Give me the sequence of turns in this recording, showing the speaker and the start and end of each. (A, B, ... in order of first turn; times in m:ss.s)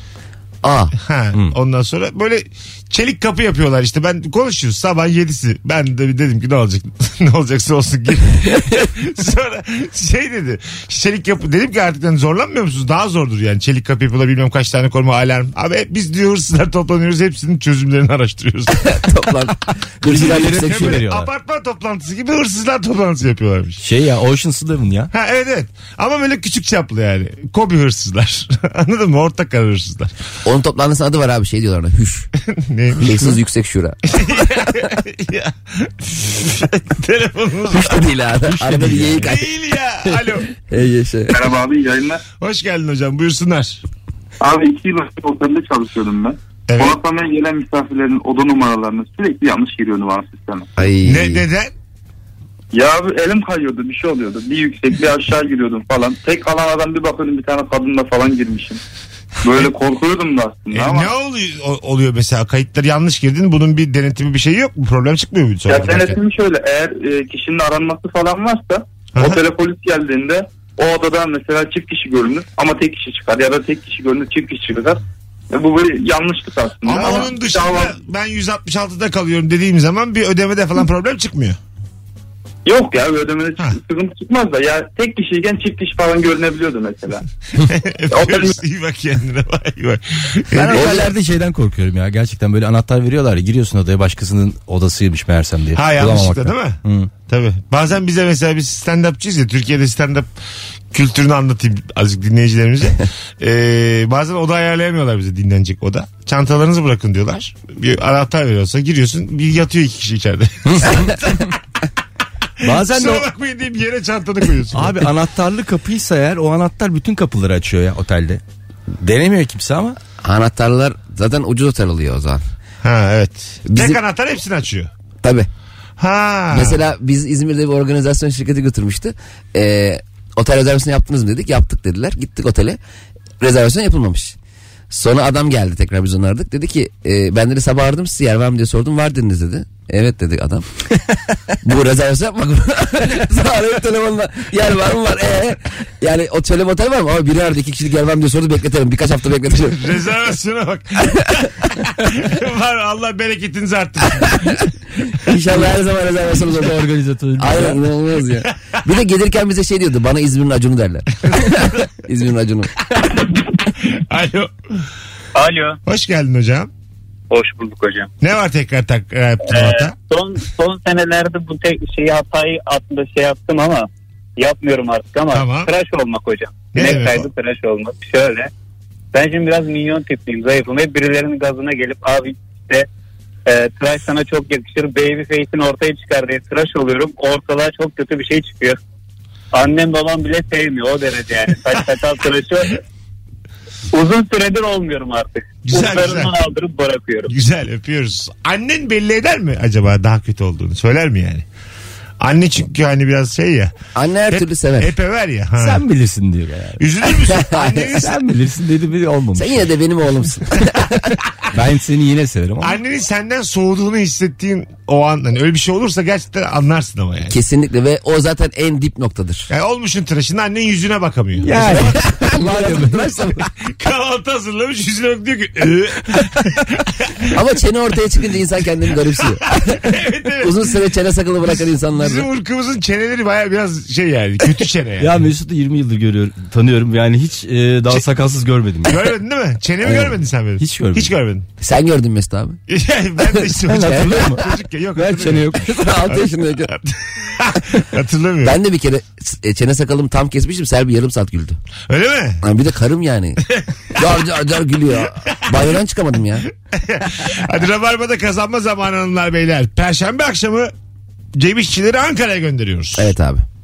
0:00.6-0:00.9 A
0:01.0-0:19.0 B
0:18.7-0:21.1 A
0:20.0-0:21.3 C
0:20.2-0:23.8 B
0:23.8-0:25.1 C
0:25.1-0:30.1 B
0:30.4-0:32.3 A
0:32.5-0:33.3 B
0:33.0-0:34.4 A
0:34.1-0:38.1 B
0:37.7-0:39.5 A
0:38.6-0:39.3 C
0:38.7-0:40.5 B
0:40.0-0:41.4 A
0:41.3-0:42.2 D
0:42.4-0:43.8 B
0:44.4-0:50.7 D
0:46.7-0:47.0 B
0:50.8-0:51.5 A
0:50.9-0:51.7 B
0:52.7-0:58.8 D
0:59.4-1:01.1 D
1:00.7-1:06.2 B
1:05.7-1:15.0 D
1:09.2-1:09.4 B
1:15.5-1:18.0 D
1:16.9-1:21.6 B
1:22.6-1:27.2 D
1:27.6-1:31.1 B
1:28.1-1:28.6 D
1:30.5-1:37.1 C
1:30.7-1:31.1 A
1:35.8-1:40.3 B
1:40.9-1:51.5 B
1:52.6-1:53.3 C
1:52.6-1:55.1 B
1:54.7-1:58.4 C
1:59.0-2:00.0 C
2:00.2-2:02.4 A
2:02.8-2:04.9 B
2:03.7-2:04.0 A
2:05.2-2:05.5 A
2:06.0-2:06.8 B
2:06.5-2:12.8 A
2:13.4-2:14.4 A
2:14.9-2:20.7 A
2:21.6-2:30.0 A
2:29.7-2:34.7 B
2:35.2-2:36.8 A
2:36.4-2:37.8 C
2:37.4-2:42.7 A
2:43.0-2:44.5 B
2:45.4-2:45.8 E
2:45.9-2:46.7 B
2:47.3-2:48.1 E
2:48.2-2:49.9 B
2:49.4-2:58.5 E
2:55.3-2:55.7 B
2:56.7-2:57.3 B
2:59.1-3:02.9 E
3:03.5-3:08.8 E
3:09.5-3:12.8 E
3:13.9-3:17.3 E
3:15.7-3:16.3 B
3:17.3-3:21.4 B
3:22.2-3:23.8 B
3:24.0-3:24.9 A
3:24.3-3:25.8 B
3:25.6-3:26.8 C
3:26.8-3:28.2 B
3:27.3-3:27.9 A
3:28.0-3:29.7 C
3:29.4-3:31.2 A
3:31.5-3:32.8 C
3:32.6-3:37.4 B
3:37.3-3:39.5 A
3:39.5-3:42.0 B
3:41.4-3:43.2 C
3:41.5-3:43.5 A
3:43.6-3:47.2 B
3:47.3-3:52.3 A
3:49.6-3:50.7 B
3:51.4-3:55.3 B
3:55.0-3:59.1 C
3:58.8-4:01.5 B
3:59.8-4:00.1 A
4:00.6-4:01.2 C
4:01.6-4:02.6 A
4:02.7-4:08.6 B
4:03.2-4:04.4 A
4:03.7-4:05.7 C
4:05.2-4:06.7 A
4:08.4-4:11.6 A
4:11.9-4:12.4 B
4:12.4-4:13.4 A
4:13.6-4:14.0 B
4:14.0-4:16.5 A
4:15.3-4:15.6 B
4:16.7-4:20.7 B
4:21.4-4:23.1 B
4:23.0-4:23.4 A